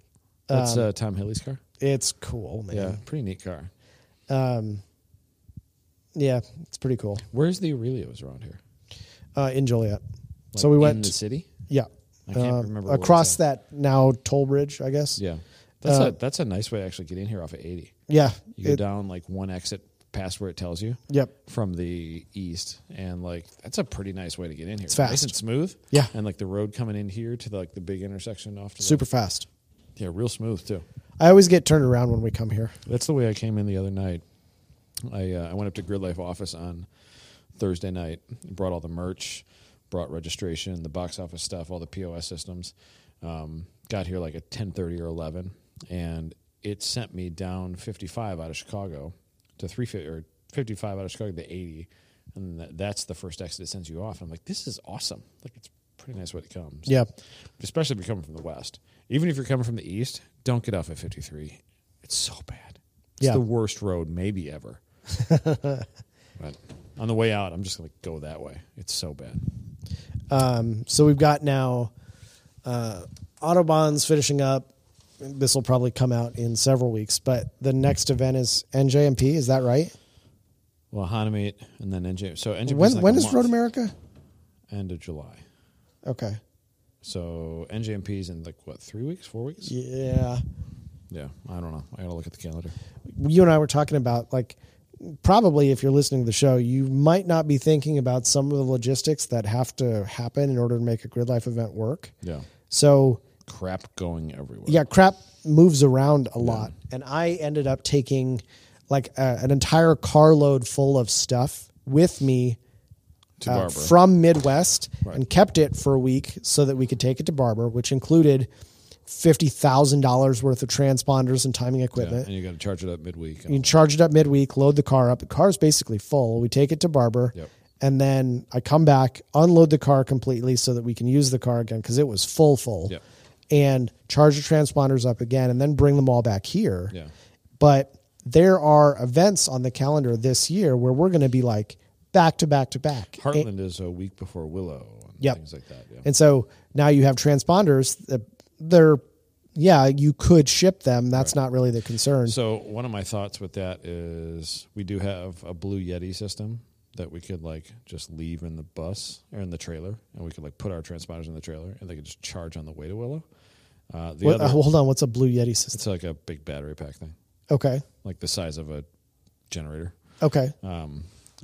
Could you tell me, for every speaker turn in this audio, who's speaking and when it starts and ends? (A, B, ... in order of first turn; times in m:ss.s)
0:00.5-0:00.9 A
0:00.5-0:01.6 B
0:01.8-0:03.0 A
0:02.7-0:03.7 B
0:04.3-0:04.8 A
0:06.1-0:07.2 A
0:07.3-0:08.6 B
0:09.4-0:10.0 A
0:10.5-0:11.5 B
0:10.6-0:11.1 A
0:11.7-0:15.2 A
0:12.3-0:13.4 B
0:15.2-0:17.9 B
0:15.8-0:16.1 A
0:18.1-0:18.8 A
0:18.6-0:29.0 B
0:24.9-0:25.3 A
0:28.8-0:29.5 A
0:30.0-0:30.8 B
0:31.2-0:32.8 A
0:32.9-0:34.2 B
0:35.1-0:36.9 B
0:37.6-0:57.0 B
0:57.6-1:04.8 B
1:05.1-1:05.9 A
1:06.4-1:09.4 B
1:10.3-1:11.9 A
1:12.6-1:14.7 A
1:15.2-1:19.9 A
1:20.9-1:23.5 B
1:22.6-1:23.9 A
1:24.7-1:25.4 B
1:26.0-1:26.4 A
1:27.0-1:29.7 B
1:29.6-1:30.4 A
1:31.1-1:32.7 B
1:33.1-1:42.1 A
1:42.2-1:42.5 B
1:42.7-1:43.2 A
1:43.4-1:44.8 B
1:44.7-1:52.6 A
1:46.4-1:46.7 B
1:53.4-1:53.9 B
1:53.4-1:58.5 A
1:59.1-2:02.3 A
2:02.0-2:03.7 B
2:03.5-2:13.0 A
2:13.5-2:16.9 A
2:17.6-2:23.4 A
2:23.2-2:26.1 B
2:26.0-2:29.0 A
2:29.6-2:32.4 A
2:32.2-2:43.3 B
2:43.9-2:44.6 B
2:44.2-2:45.8 A
2:45.7-2:47.1 B
2:47.5-2:47.8 A
2:48.0-2:48.9 B
2:49.5-2:49.9 B
2:50.2-2:50.5 A
2:50.6-2:51.1 B